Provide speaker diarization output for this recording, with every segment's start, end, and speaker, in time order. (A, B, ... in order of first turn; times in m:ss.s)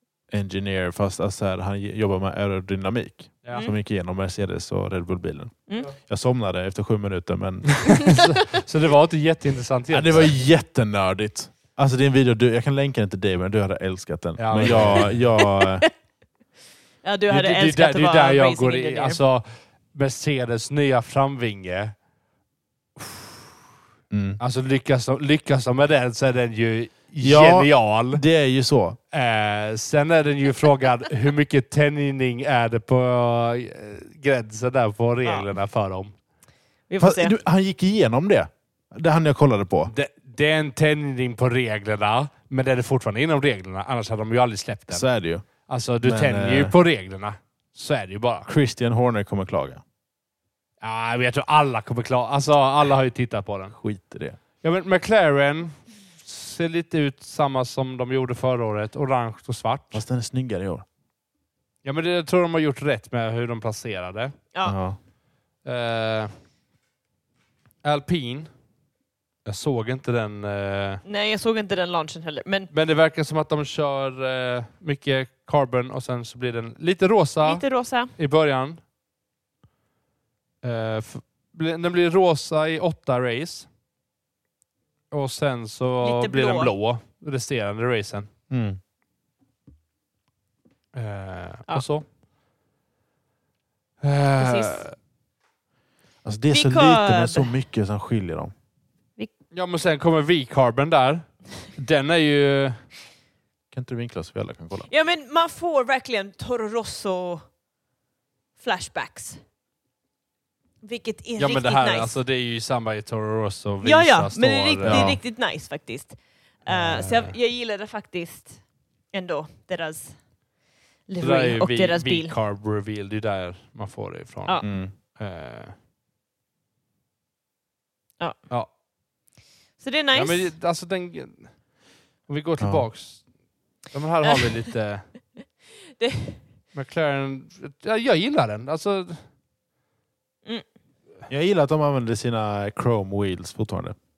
0:00.3-0:08.2 A
0:07.7-0:10.3 B
0:09.9-0:15.8 A
0:14.4-0:15.2 B
0:14.6-0:15.9 C
0:17.0-0:19.2 C
0:17.3-0:21.9 B
0:23.0-0:23.4 B
0:24.1-0:24.4 A
0:24.4-0:28.2 B
0:27.2-0:29.0 A
0:29.1-0:36.1 B
0:36.9-0:37.3 C
0:37.0-0:39.9 A
0:39.8-0:45.0 B
0:44.9-0:45.4 A
0:45.7-0:48.5 B
0:46.0-0:46.7 A
0:48.5-0:49.8 A
0:50.8-0:53.8 B
0:53.8-0:54.4 A
0:54.6-1:00.0 B
0:59.9-1:00.8 A
1:01.8-1:04.4 B
1:04.6-1:05.0 A
1:05.6-1:06.3 B
1:07.8-1:08.5 B
1:09.4-1:11.0 B
1:11.0-1:12.7 C
1:12.7-1:17.6 B
1:17.4-1:18.1 C
1:18.2-1:18.8 B
1:20.6-1:23.7 B
1:25.1-1:28.3 B
1:26.0-1:26.7 C
1:28.5-1:28.8 A
1:30.9-1:32.0 B
1:34.0-1:34.9 B
1:34.4-1:34.8 C
1:36.2-1:38.5 A
1:36.5-1:37.5 C
1:39.5-1:42.8 B
1:43.7-1:44.9 A
1:44.9-1:47.4 C
1:48.6-1:49.4 C
1:50.8-1:52.1 C
1:51.4-1:55.1 B
1:53.8-1:58.6 C
1:54.8-1:55.2 A
1:56.7-1:57.4 B
1:59.1-2:00.2 C
2:01.1-2:02.3 C
2:01.2-2:05.7 B
2:04.6-2:04.9 A
2:09.8-2:10.5 C
2:10.1-2:11.5 B
2:12.3-2:13.3 B
2:13.9-2:15.1 B
2:15.4-2:16.4 C
2:16.7-2:19.2 B
2:21.3-2:23.9 A